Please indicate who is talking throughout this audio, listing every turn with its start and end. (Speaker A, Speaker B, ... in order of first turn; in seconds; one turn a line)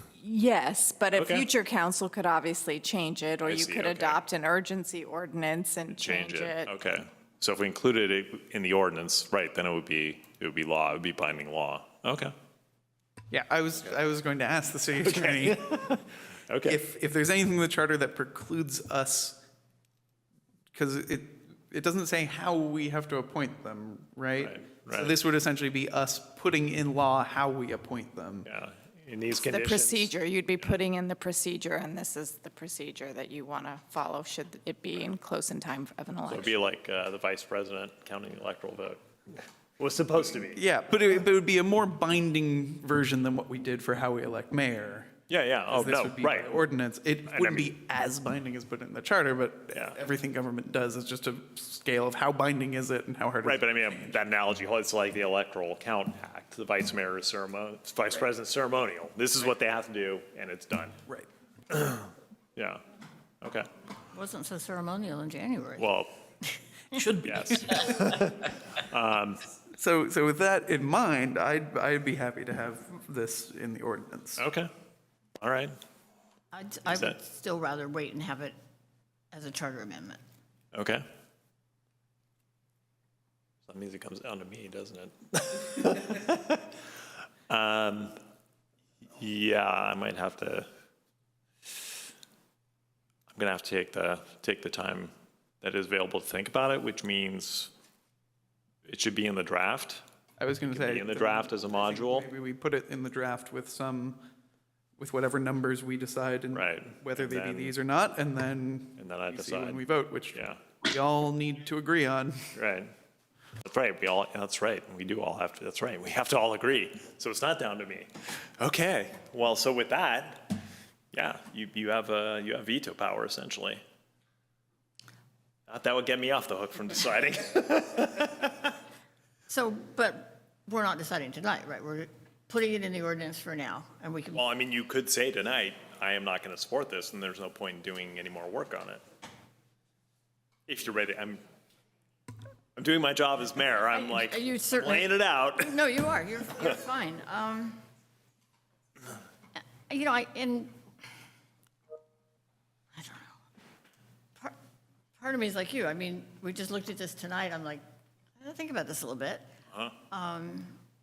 Speaker A: 0.2-6.7
Speaker B: 1.1-1.5
Speaker B: 3.4-4.2
Speaker B: 6.0-12.3
Speaker C: 13.3-15.9
Speaker B: 15.0-16.8
Speaker C: 16.6-19.4
Speaker C: 20.7-28.5
Speaker B: 24.4-25.1
Speaker B: 28.4-30.6
Speaker A: 29.3-36.5
Speaker B: 36.3-40.6
Speaker C: 40.5-45.1
Speaker B: 45.3-46.6
Speaker C: 45.7-54.2
Speaker B: 47.3-47.7
Speaker B: 53.4-61.0
Speaker B: 61.7-62.8
Speaker B: 63.4-63.7
Speaker D: 64.1-65.9
Speaker B: 65.8-66.1
Speaker C: 66.9-68.0
Speaker B: 67.2-69.4
Speaker C: 69.8-74.4
Speaker B: 74.4-74.7
Speaker B: 75.4-75.7
Speaker D: 76.5-78.5
Speaker B: 76.9-77.2
Speaker D: 79.3-80.2
Speaker B: 80.7-81.0
Speaker B: 83.7-86.8
Speaker B: 87.5-88.1
Speaker B: 89.2-90.7
Speaker B: 93.3-97.7
Speaker B: 98.8-100.0
Speaker C: 100.4-104.2
Speaker B: 100.6-102.3
Speaker C: 105.0-112.5
Speaker B: 106.5-107.7
Speaker B: 109.0-110.6
Speaker B: 112.5-112.9
Speaker B: 113.6-120.5
Speaker B: 121.1-123.8
Speaker B: 125.7-128.8
Speaker D: 129.5-134.4
Speaker B: 134.3-139.0
Speaker B: 140.7-141.4
Speaker B: 142.8-145.9
Speaker D: 143.8-147.8
Speaker D: 149.6-150.7
Speaker D: 152.9-153.3
Speaker D: 155.2-157.8
Speaker D: 158.4-159.4
Speaker D: 160.1-160.8